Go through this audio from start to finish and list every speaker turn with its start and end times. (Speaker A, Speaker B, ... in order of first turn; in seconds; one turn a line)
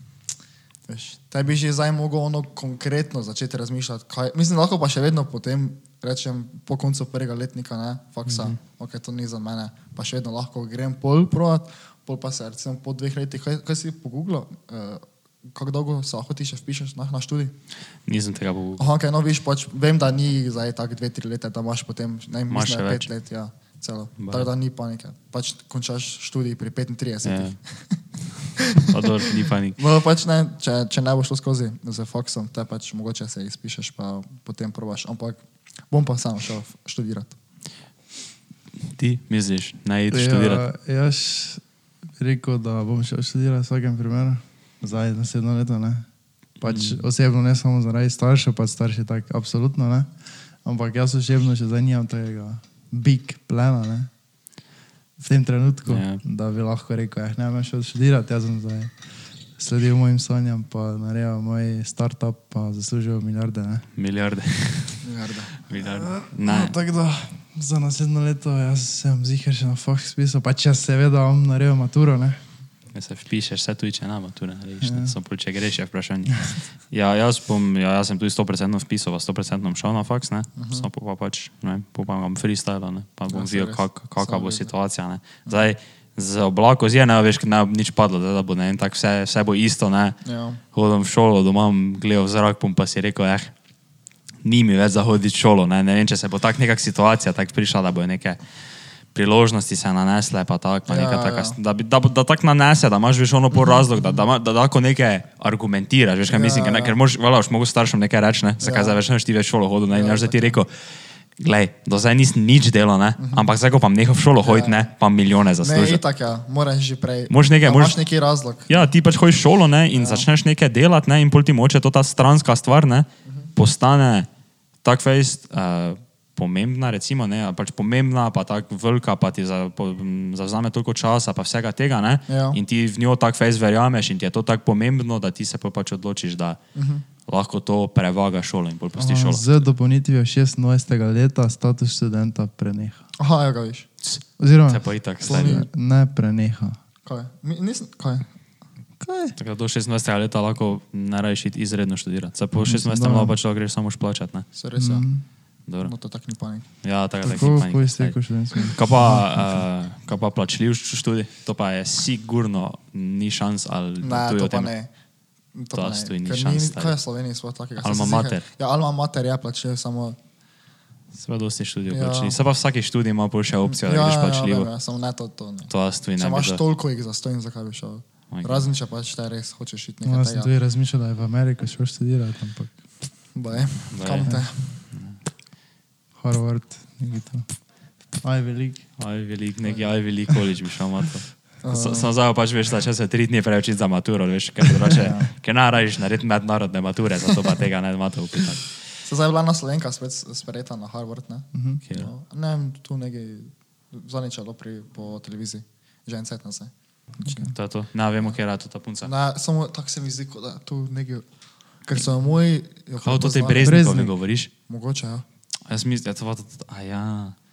Speaker A: 0.9-17.5
Speaker B: 8.3-8.6
Speaker B: 18.1-18.9
Speaker A: 18.8-28.0
Speaker B: 22.5-23.1
Speaker B: 24.2-24.5
Speaker B: 27.2-27.6
Speaker A: 28.6-29.1
Speaker B: 28.8-29.8
Speaker A: 29.8-37.4
Speaker B: 38.9-40.6
Speaker C: 40.1-41.6
Speaker C: 42.2-54.1
Speaker B: 46.7-47.0
Speaker C: 55.2-63.9
Speaker B: 55.9-56.2
Speaker B: 64.0-65.1
Speaker A: 65.0-65.5
Speaker B: 65.7-66.8
Speaker C: 65.8-72.4
Speaker B: 72.9-90.2
Speaker C: 74.8-75.1
Speaker A: 80.6-80.9
Speaker A: 83.3-84.7
Speaker A: 90.2-90.6
Speaker B: 90.7-93.5
Speaker B: 94.4-98.4
Speaker B: 99.1-116.0
Speaker A: 100.9-101.6
Speaker A: 103.5-104.2
Speaker A: 106.3-107.0
Speaker A: 108.6-109.0
Speaker A: 109.9-110.6
Speaker A: 113.2-113.5
Speaker A: 114.4-114.9
Speaker A: 115.6-118.9
Speaker B: 117.3-118.0
Speaker B: 118.7-124.3
Speaker A: 119.9-120.3
Speaker B: 124.8-136.6
Speaker A: 132.3-132.6
Speaker A: 136.8-137.1
Speaker B: 137.3-139.5
Speaker C: 139.0-143.0
Speaker A: 143.2-143.9
Speaker B: 144.0-145.6
Speaker C: 144.4-146.8
Speaker A: 145.2-145.7
Speaker A: 147.1-148.3
Speaker C: 149.0-149.4
Speaker B: 149.4-154.5
Speaker C: 152.7-153.3
Speaker A: 154.6-155.1
Speaker C: 154.8-155.3
Speaker B: 155.7-155.9
Speaker A: 155.8-156.7
Speaker B: 156.8-164.7
Speaker C: 157.2-159.6
Speaker A: 164.0-164.9
Speaker A: 165.5-170.2
Speaker B: 165.8-166.9
Speaker B: 167.8-168.4
Speaker B: 171.2-174.7
Speaker A: 171.9-172.4
Speaker A: 173.7-180.5
Speaker B: 175.7-176.6
Speaker B: 178.3-178.7
Speaker C: 180.1-182.8
Speaker A: 183.3-184.8
Speaker B: 183.9-185.2
Speaker C: 186.2-188.9
Speaker B: 189.0-198.8
Speaker A: 191.6-192.1
Speaker A: 194.9-195.3
Speaker A: 199.0-207.5
Speaker C: 201.5-201.8
Speaker C: 207.2-207.5
Speaker B: 207.5-209.1
Speaker A: 209.0-211.3
Speaker A: 211.8-213.8
Speaker B: 213.0-214.5
Speaker C: 213.6-214.1
Speaker A: 214.7-215.2
Speaker B: 215.7-217.4